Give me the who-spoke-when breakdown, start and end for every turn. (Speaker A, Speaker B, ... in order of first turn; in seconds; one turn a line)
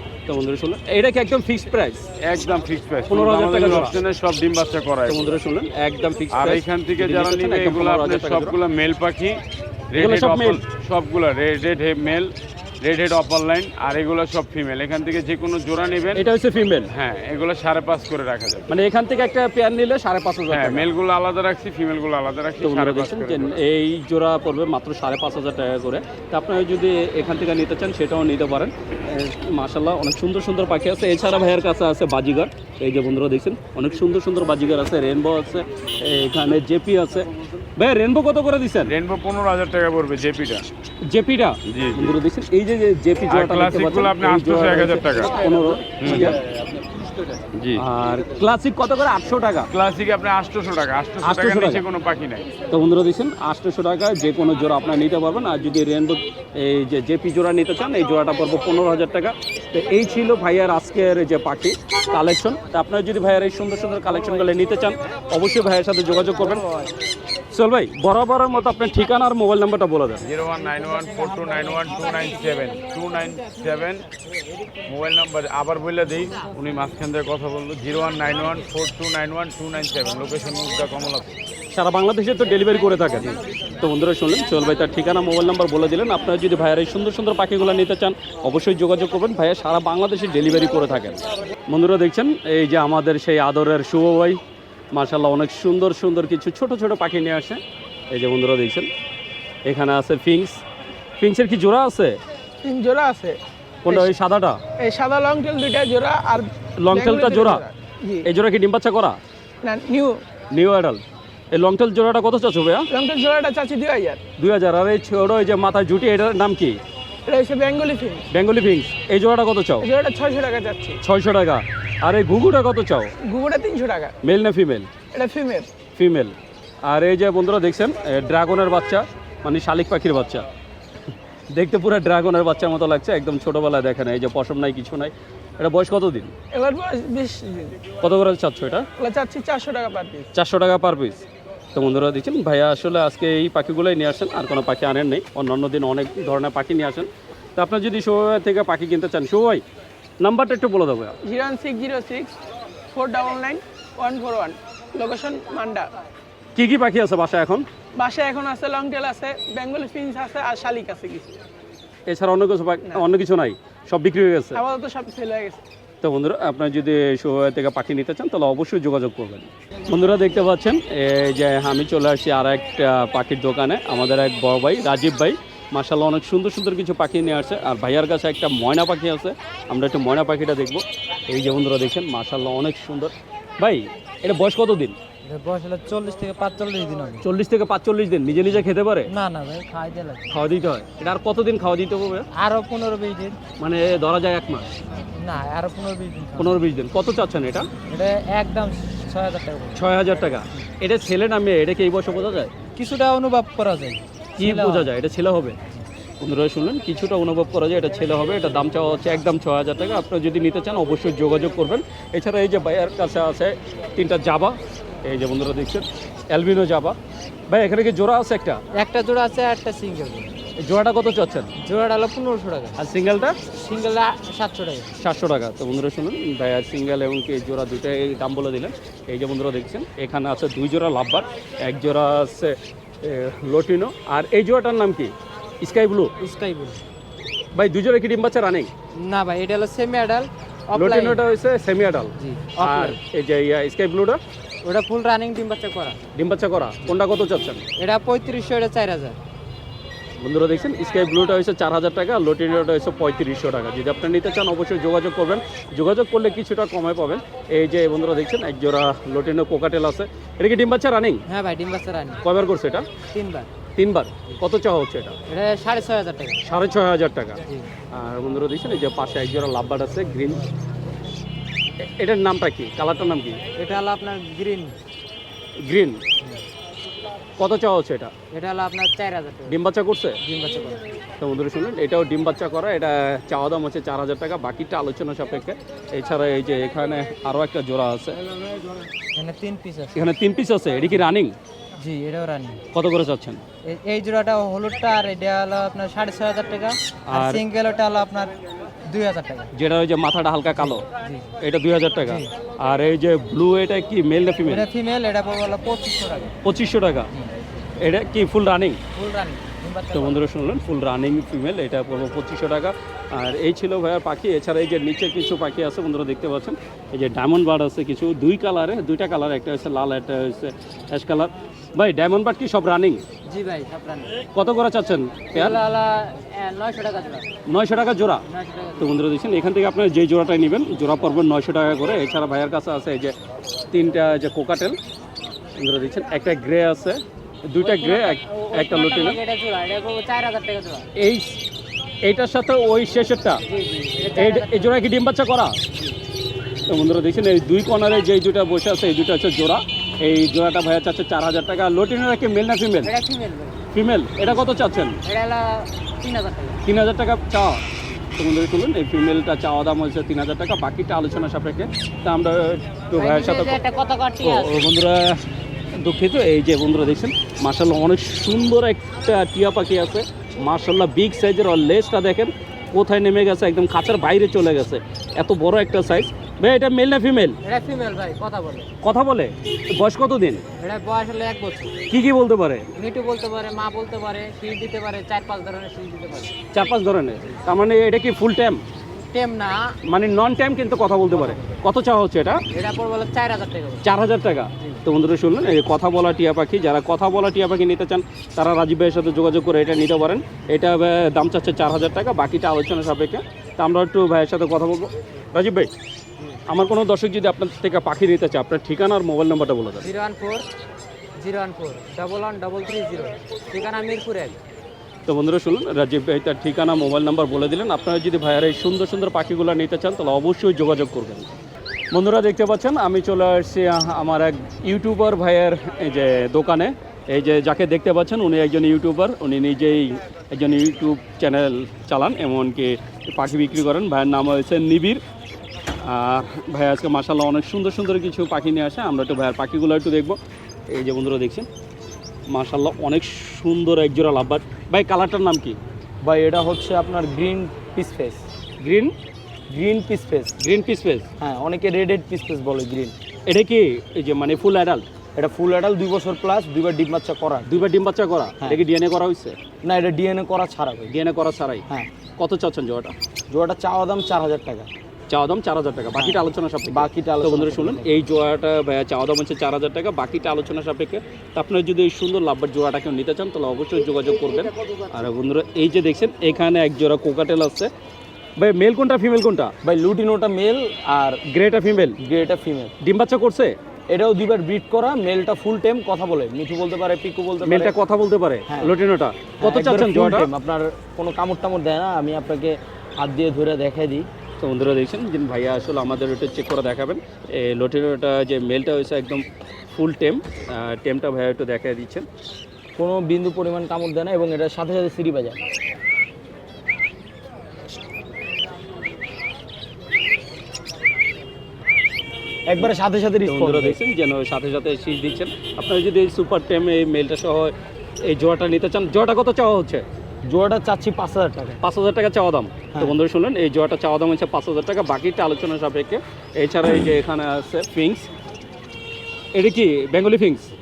Speaker A: 0.3-2.0
Speaker B: 2.2-5.4
Speaker A: 3.1-4.0
Speaker A: 5.0-8.6
Speaker B: 6.3-9.4
Speaker B: 9.9-16.3
Speaker A: 9.9-10.6
Speaker A: 16.1-16.9
Speaker B: 16.9-18.7
Speaker A: 18.7-20.9
Speaker B: 20.5-23.5
Speaker A: 22.6-38.9
Speaker B: 38.8-40.6
Speaker A: 41.0-46.4
Speaker B: 41.7-42.1
Speaker B: 43.3-45.4
Speaker B: 46.0-46.4
Speaker B: 47.5-47.8
Speaker A: 47.8-49.7
Speaker B: 49.7-52.5
Speaker A: 51.2-51.8
Speaker A: 52.7-66.6
Speaker A: 67.5-70.2
Speaker B: 70.2-74.0
Speaker B: 74.9-81.3
Speaker A: 81.7-94.4
Speaker A: 94.9-98.9
Speaker A: 99.7-100.6
Speaker A: 101.2-102.2
Speaker C: 102.6-104.1
Speaker A: 103.8-104.6
Speaker C: 104.8-108.3
Speaker A: 106.8-107.6
Speaker A: 108.2-109.2
Speaker C: 109.6-110.2
Speaker A: 110.5-112.9
Speaker C: 112.9-114.2
Speaker A: 114.4-116.8
Speaker C: 117.3-118.2
Speaker A: 118.3-119.9
Speaker C: 119.8-121.0
Speaker A: 121.0-123.1
Speaker C: 123.3-124.1
Speaker A: 124.2-124.9
Speaker C: 125.1-125.7
Speaker A: 125.9-126.3
Speaker A: 126.8-130.4
Speaker A: 131.5-136.3
Speaker C: 136.5-137.8
Speaker A: 138.0-138.9
Speaker C: 139.0-140.3
Speaker A: 140.3-141.2
Speaker A: 141.7-149.6
Speaker A: 150.2-151.1
Speaker C: 151.2-152.3
Speaker C: 152.9-155.9
Speaker A: 156.6-157.7
Speaker C: 158.0-161.4
Speaker A: 162.1-164.6
Speaker C: 164.5-165.6
Speaker A: 166.0-184.9
Speaker D: 185.2-187.2
Speaker A: 187.2-189.1
Speaker D: 189.1-190.3
Speaker A: 190.3-192.2
Speaker D: 192.3-193.4
Speaker A: 193.6-194.7
Speaker D: 195.2-196.6
Speaker A: 196.4-197.7
Speaker D: 197.9-199.8
Speaker A: 199.7-202.5
Speaker D: 202.7-204.9
Speaker A: 204.4-205.6
Speaker A: 206.2-216.9
Speaker A: 217.5-218.6
Speaker D: 218.8-220.3
Speaker A: 220.6-221.5
Speaker D: 221.6-222.8
Speaker A: 222.8-223.4
Speaker D: 223.5-224.9
Speaker A: 225.0-236.1
Speaker D: 236.2-236.8
Speaker A: 237.5-238.7
Speaker D: 239.0-241.2
Speaker A: 240.7-244.2
Speaker D: 242.2-243.0
Speaker D: 244.6-246.0
Speaker A: 246.2-247.6
Speaker D: 247.8-249.2
Speaker A: 250.2-261.2
Speaker D: 261.3-262.2
Speaker A: 262.2-262.9
Speaker D: 263.1-263.5
Speaker A: 263.8-265.1
Speaker D: 265.3-266.4
Speaker A: 266.4-267.4
Speaker A: 267.9-270.5
Speaker A: 271.8-273.4
Speaker D: 273.6-274.8
Speaker A: 275.6-276.0
Speaker A: 277.4-278.1
Speaker D: 278.3-279.6
Speaker A: 279.5-280.2
Speaker D: 280.2-280.8
Speaker A: 281.2-288.2
Speaker D: 288.3-289.9
Speaker A: 289.9-291.4
Speaker D: 291.8-292.6
Speaker A: 292.7-293.4
Speaker D: 293.6-298.3
Speaker A: 297.1-297.4
Speaker D: 298.9-299.5
Speaker A: 299.5-300.8
Speaker D: 300.6-301.3
Speaker A: 301.4-304.6
Speaker D: 302.0-302.3
Speaker D: 304.4-306.4
Speaker A: 306.4-307.1
Speaker A: 307.8-308.8
Speaker D: 308.9-310.2
Speaker A: 309.9-323.0
Speaker D: 323.2-324.2
Speaker A: 324.3-325.6
Speaker D: 325.3-327.3
Speaker A: 327.5-328.2
Speaker D: 328.3-329.0
Speaker A: 328.8-333.1
Speaker A: 333.7-334.8
Speaker A: 335.6-339.2
Speaker D: 337.6-340.9
Speaker A: 340.9-341.4
Speaker A: 342.0-343.4
Speaker D: 343.5-344.9
Speaker A: 344.1-345.6
Speaker A: 346.7-352.9
Speaker D: 352.8-353.6
Speaker A: 353.7-355.0
Speaker D: 355.0-356.6
Speaker A: 356.6-357.6
Speaker A: 358.2-363.6
Speaker D: 362.9-364.7
Speaker A: 364.2-365.2
Speaker A: 365.7-377.4
Speaker D: 377.4-378.7
Speaker A: 378.8-380.4
Speaker D: 380.6-381.7
Speaker A: 381.9-382.7
Speaker D: 382.8-386.4
Speaker A: 386.5-388.6
Speaker D: 389.1-389.7
Speaker A: 389.8-392.4
Speaker D: 392.5-393.8
Speaker A: 393.8-405.7
Speaker A: 406.5-409.9
Speaker D: 409.8-410.4
Speaker D: 411.2-414.4
Speaker A: 415.1-421.3
Speaker A: 421.9-435.0
Speaker A: 435.8-440.2
Speaker A: 440.7-441.5
Speaker A: 442.3-445.6
Speaker E: 446.0-448.2
Speaker A: 448.6-448.9
Speaker E: 449.5-450.3
Speaker A: 450.4-451.1
Speaker E: 451.2-452.9
Speaker A: 453.3-454.9
Speaker E: 455.1-457.6
Speaker A: 457.5-459.4
Speaker E: 459.6-460.9
Speaker A: 460.9-461.6
Speaker A: 462.2-462.9
Speaker E: 463.3-464.7
Speaker A: 465.1-477.7
Speaker E: 465.9-468.0
Speaker A: 478.4-479.5
Speaker E: 479.6-481.2
Speaker A: 481.3-482.0
Speaker E: 482.0-482.7
Speaker A: 482.8-483.6
Speaker E: 483.9-487.7
Speaker A: 487.4-490.3
Speaker E: 488.5-488.7
Speaker E: 489.4-494.1
Speaker A: 494.4-502.1
Speaker E: 502.8-505.4
Speaker E: 512.5-513.8
Speaker A: 513.2-519.9
Speaker E: 520.2-521.6
Speaker A: 521.6-528.1
Speaker A: 529.3-530.5